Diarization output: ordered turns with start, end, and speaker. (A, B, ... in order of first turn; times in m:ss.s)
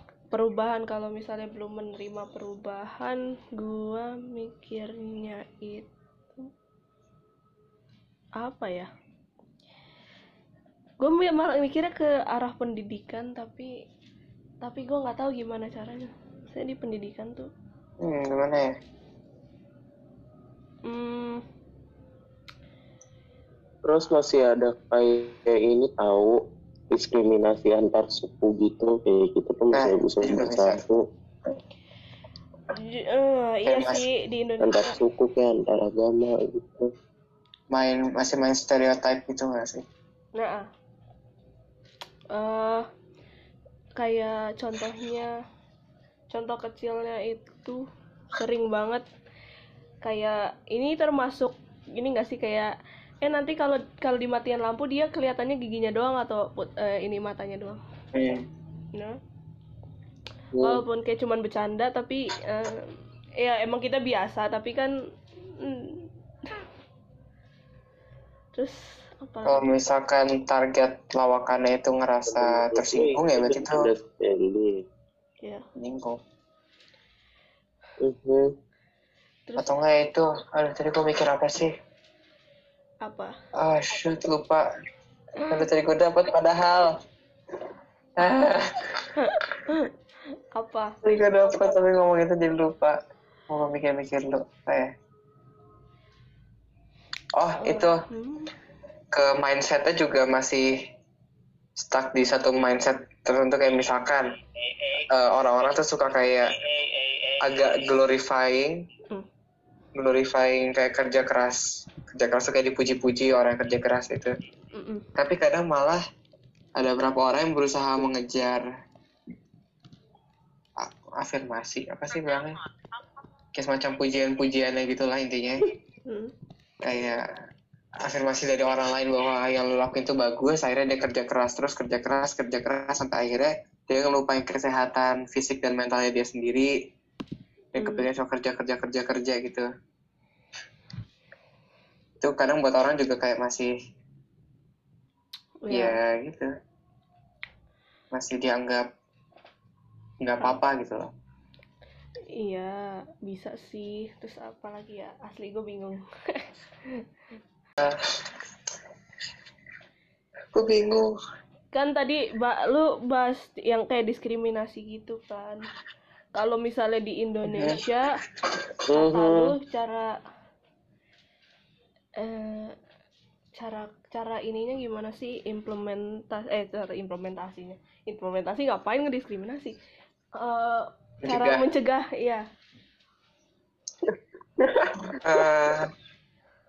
0:00.3-0:06.5 A
0:08.4-0:08.9 A
0:11.0-0:13.7 A
0:14.6-0:17.5 A
0:18.0-0:18.7 B
0:20.8-0:21.4 A
0:23.8-0:31.0 C
0:29.7-0:30.8 B
0:32.7-0:35.0 A
0:33.6-0:34.0 B
0:34.6-0:36.9 C
0:37.7-0:39.8 B
0:40.4-0:40.7 A
0:42.3-0:42.9 A
0:44.0-0:45.3 A
0:46.3-0:47.8 A
0:48.4-0:49.0 A
0:50.0-0:57.8 A
0:58.1-0:58.4 B
0:58.9-0:59.2 A
1:00.6-1:04.9 A
1:05.6-1:06.6 A
1:08.6-1:09.6 A
1:09.4-1:13.9 B
1:12.2-1:14.8 C
1:15.8-1:16.2 B
1:18.0-1:18.5 C
1:19.6-1:21.7 B
1:23.0-1:23.3 A
1:23.6-1:24.6 B
1:25.5-1:27.0 B
1:28.2-1:29.1 B
1:29.1-1:29.9 A
1:30.5-1:31.0 A
1:31.0-1:33.0 B
1:33.5-1:34.9 B
1:37.4-1:38.0 B
1:37.6-1:38.5 A
1:39.1-1:40.7 B
1:41.8-1:44.3 B
1:45.0-1:46.5 B
1:47.4-1:48.8 B
1:49.9-1:54.3 B
1:54.7-1:55.1 A
1:55.2-1:56.0 B
1:56.8-1:58.6 B
2:00.8-2:02.6 B
2:03.5-2:05.7 B
2:06.0-2:06.3 A
2:06.8-2:07.3 B
2:08.0-2:16.7 B
2:17.7-2:19.7 B
2:17.8-2:18.0 A
2:22.2-2:23.7 B
2:25.6-2:26.0 A
2:25.7-2:26.5 B
2:28.1-2:28.9 B
2:30.2-2:31.1 B
2:32.3-2:37.0 A
2:37.8-2:38.2 B
2:40.5-2:41.1 B
2:41.7-2:45.6 A
2:46.3-2:48.2 A
2:47.5-2:47.8 B
2:48.9-2:49.5 C
2:48.9-2:50.1 A
2:52.2-2:52.8 A
2:53.6-2:59.8 A
3:00.4-3:02.4 A
3:01.2-3:01.6 B
3:04.7-3:05.1 C
3:05.2-3:05.9 B